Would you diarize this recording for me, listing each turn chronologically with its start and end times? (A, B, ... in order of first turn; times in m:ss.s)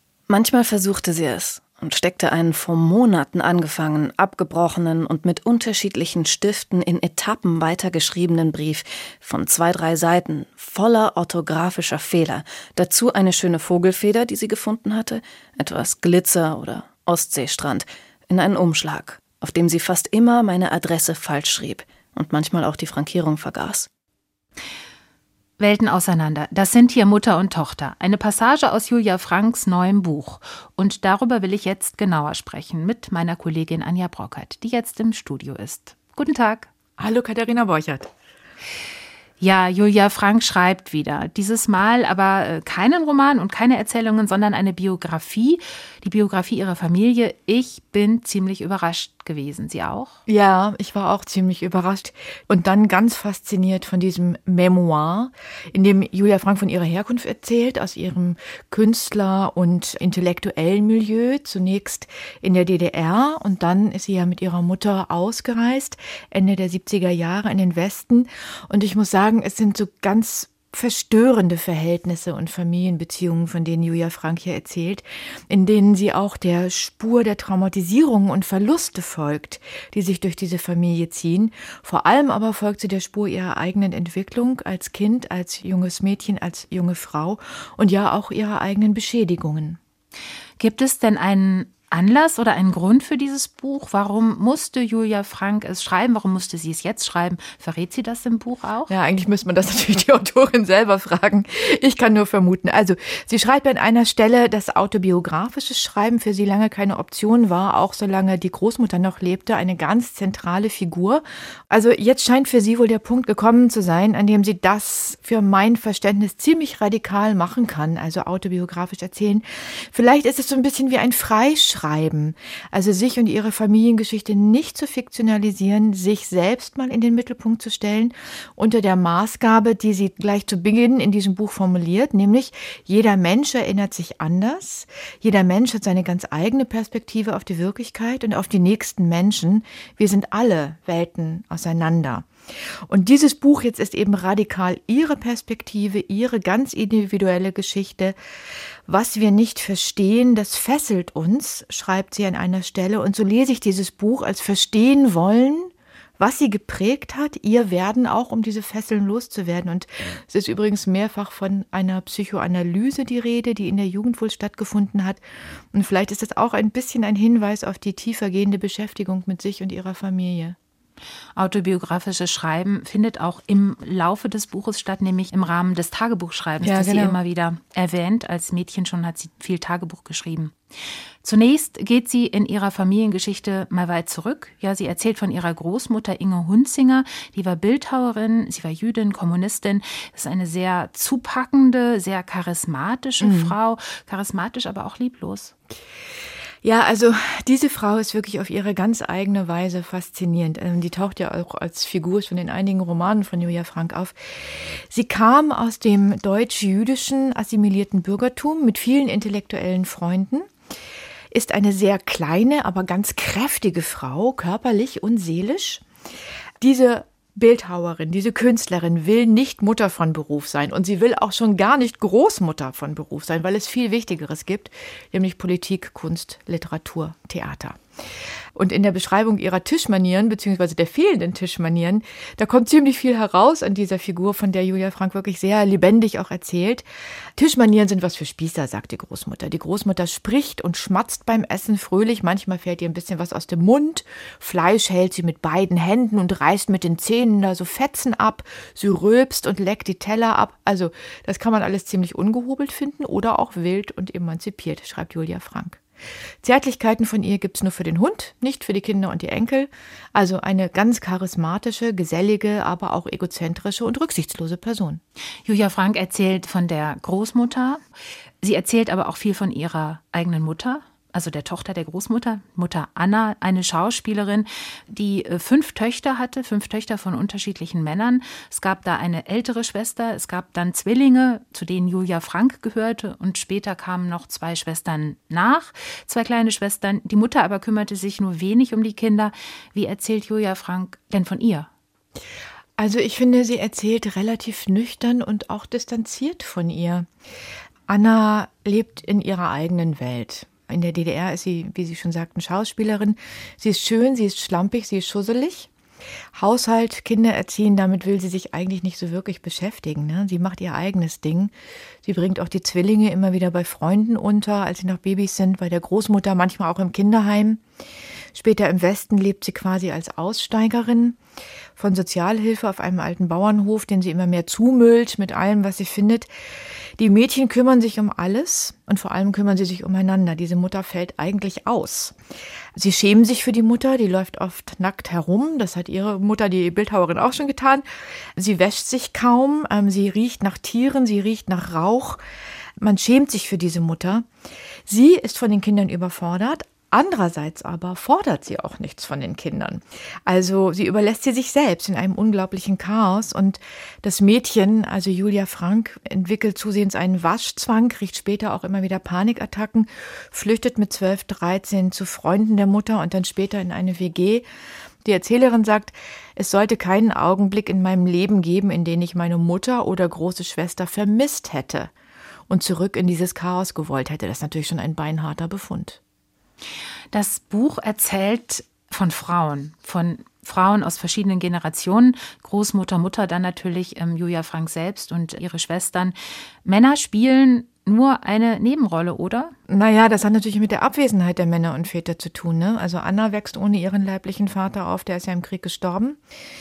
0:00.3-0:23.9 A
0:25.6-0:36.7 B
0:37.0-0:38.1 C
0:39.4-0:50.2 B
0:50.3-1:29.8 C
1:30.6-1:38.9 B
1:38.9-2:22.3 C
2:22.9-2:28.2 C
2:28.9-2:45.2 C
2:45.7-2:50.6 C
2:51.4-3:00.6 B
2:56.6-2:57.2 C
3:01.2-3:15.5 B
3:13.2-3:13.6 C
3:16.6-3:30.5 C
3:31.3-3:35.8 C
3:36.6-3:47.8 C
3:48.6-3:56.8 C
3:57.4-4:15.8 C
4:16.4-4:25.0 C
4:25.4-4:27.8 B
4:28.4-4:51.7 B
4:52.8-4:57.1 C
4:57.9-5:05.7 C
5:06.4-5:11.5 C
5:12.0-5:17.6 C
5:18.3-5:21.2 C
5:21.8-5:26.3 C
5:27.0-5:32.2 C
5:32.8-5:37.9 C
5:38.4-5:42.2 C
5:42.8-5:44.3 C
5:44.9-6:04.5 C
6:05.0-6:11.9 C
6:12.5-6:16.0 C
6:17.1-6:29.5 B
6:29.7-6:36.2 C